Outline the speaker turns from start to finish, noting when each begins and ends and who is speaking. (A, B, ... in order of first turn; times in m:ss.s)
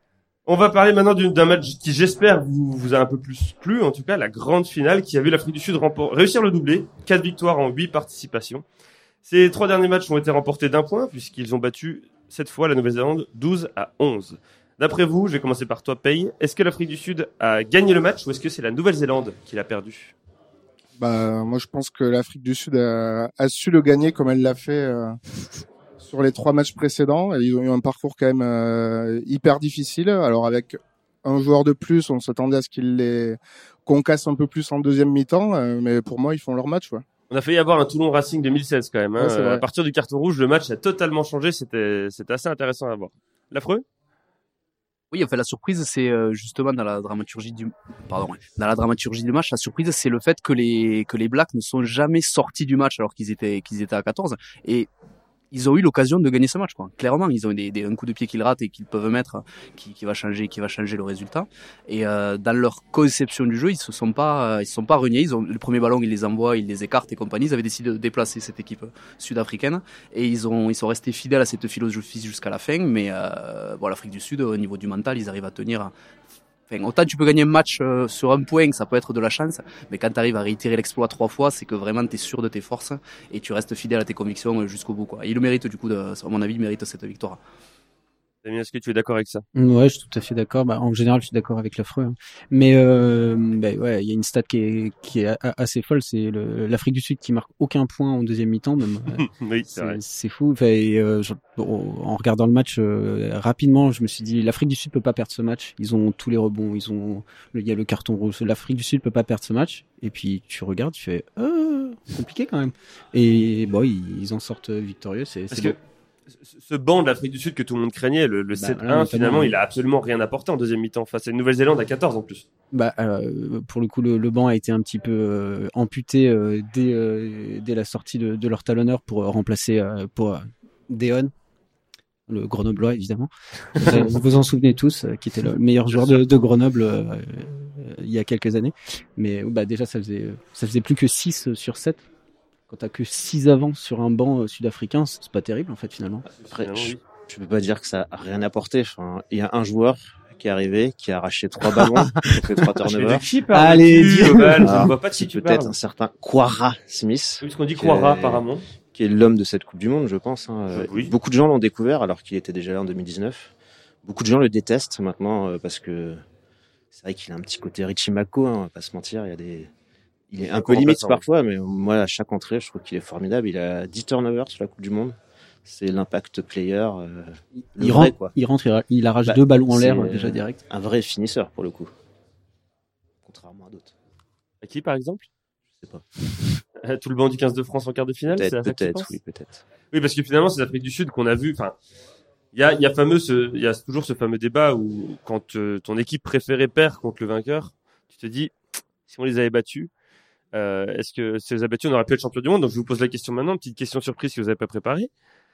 0:00.5-0:08.6 A
0:09.2-0:20.1 A
0:21.0-0:25.2 B
0:26.0-0:37.0 B
0:37.3-0:43.8 A
0:39.2-0:39.6 B
0:45.1-0:54.9 C
0:55.5-1:15.9 C
1:16.7-1:27.4 C
1:28.4-1:29.4 A
1:29.6-1:55.8 D
1:39.2-1:40.0 A
1:55.5-1:55.8 A
1:56.4-2:02.5 A
1:58.5-1:59.6 D
2:02.7-2:11.3 D
2:12.3-2:22.0 D
2:15.9-2:16.2 A
2:22.7-2:26.3 D
2:26.3-2:27.0 A
2:26.5-2:33.2 E
2:32.8-2:35.8 A
2:33.5-2:34.9 D
2:34.6-2:43.5 E
2:37.4-2:38.6 A
2:40.7-2:41.1 A
2:44.0-2:46.2 E
2:46.9-2:49.7 E
2:50.3-2:58.3 E
2:50.5-2:51.2 A
2:57.7-3:00.6 D
2:59.2-3:01.9 E
3:03.2-3:03.9 E
3:04.6-3:05.3 A
3:06.8-3:09.1 A
3:08.3-3:09.6 E
3:09.9-3:11.8 A
3:12.5-3:18.5 A
3:19.1-3:19.9 A
3:20.5-3:25.1 A